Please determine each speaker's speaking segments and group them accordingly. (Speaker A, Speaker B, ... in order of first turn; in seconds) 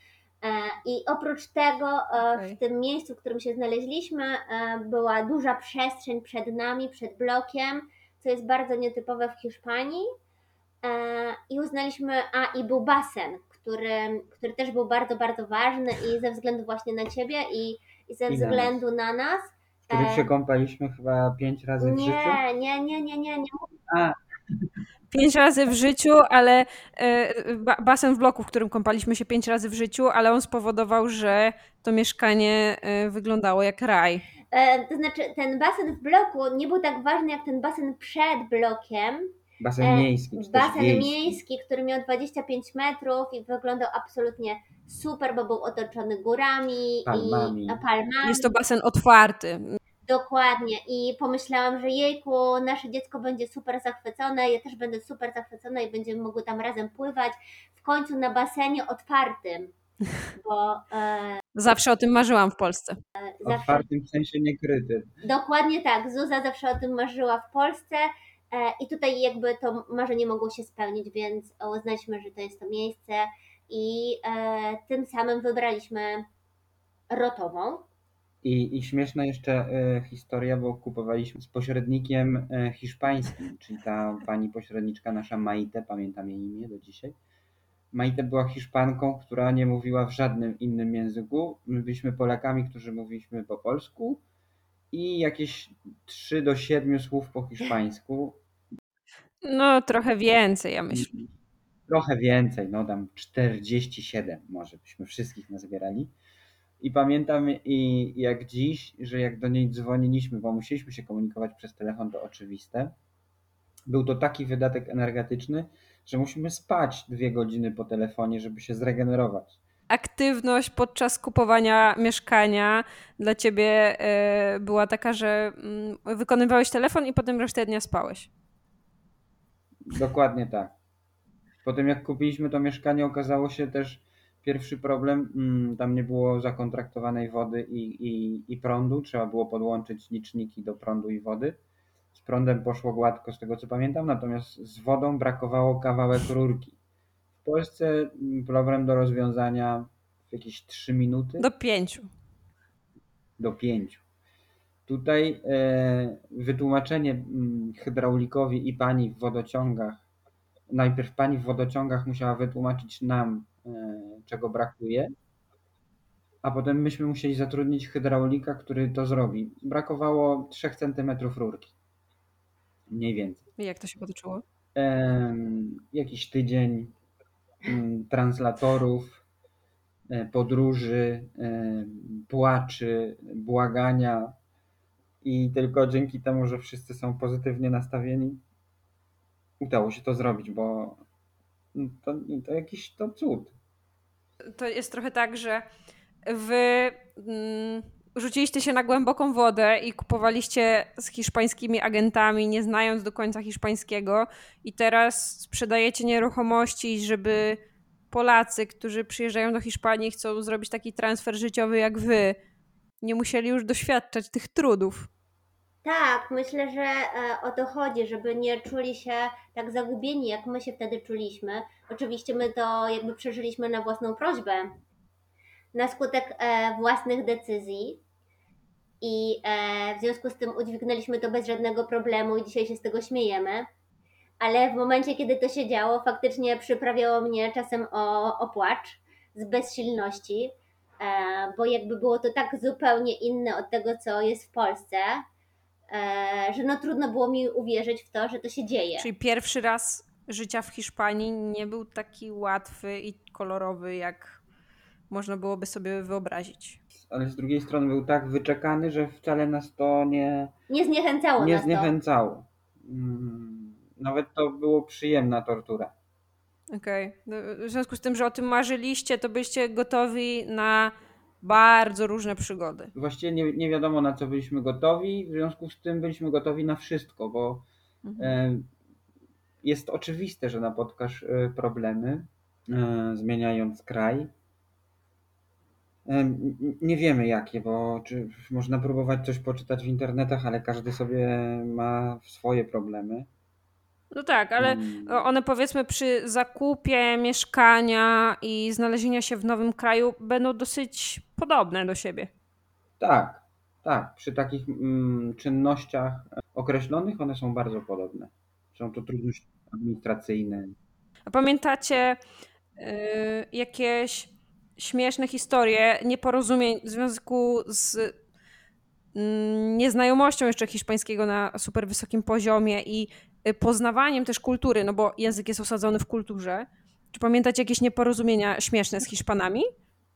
Speaker A: 0.4-10.1, 10.8-20.3, 21.8-23.7, 34.5-48.5, 50.0-59.7, 60.4-61.4, 63.2-63.9, 65.2-76.3, 77.1-77.8, 215.8-224.7, 225.7-228.0, 229.0-233.7, 234.4-245.2, 245.9-249.1, 260.7-261.9
Speaker B: 2.2-2.6, 25.1-34.2, 48.2-49.8, 61.5-63.0, 99.4-101.1, 119.9-128.3, 151.4-152.1, 173.6-174.4, 194.5-195.7, 196.2-207.6, 208.1-212.4, 213.0-215.1, 249.0-254.4, 255.1-256.8, 266.7-272.9, 278.0-278.3, 294.1-302.3, 311.3-312.2, 312.8-318.1, 319.1-329.7
Speaker C: 18.3-18.8, 19.9-22.4, 23.9-24.7, 39.6-41.4, 47.0-47.8, 63.4-65.1, 78.4-87.2, 87.9-94.2, 94.9-98.4, 100.9-101.2, 101.9-106.1, 106.8-112.9, 113.9-119.6, 129.9-130.7, 131.6-141.6, 142.1-146.8, 147.4-151.5, 153.4-154.0, 154.9-160.0, 160.7-165.1, 166.4-171.7, 172.9-173.4, 174.8-176.9, 177.6-179.2, 180.1-184.3, 185.2-188.4, 189.6-191.0, 191.7-193.5, 257.0-260.5, 261.4-265.9, 272.9-277.6, 278.2-278.7, 279.6-284.3, 286.1-293.3, 294.6-295.3, 303.0-310.7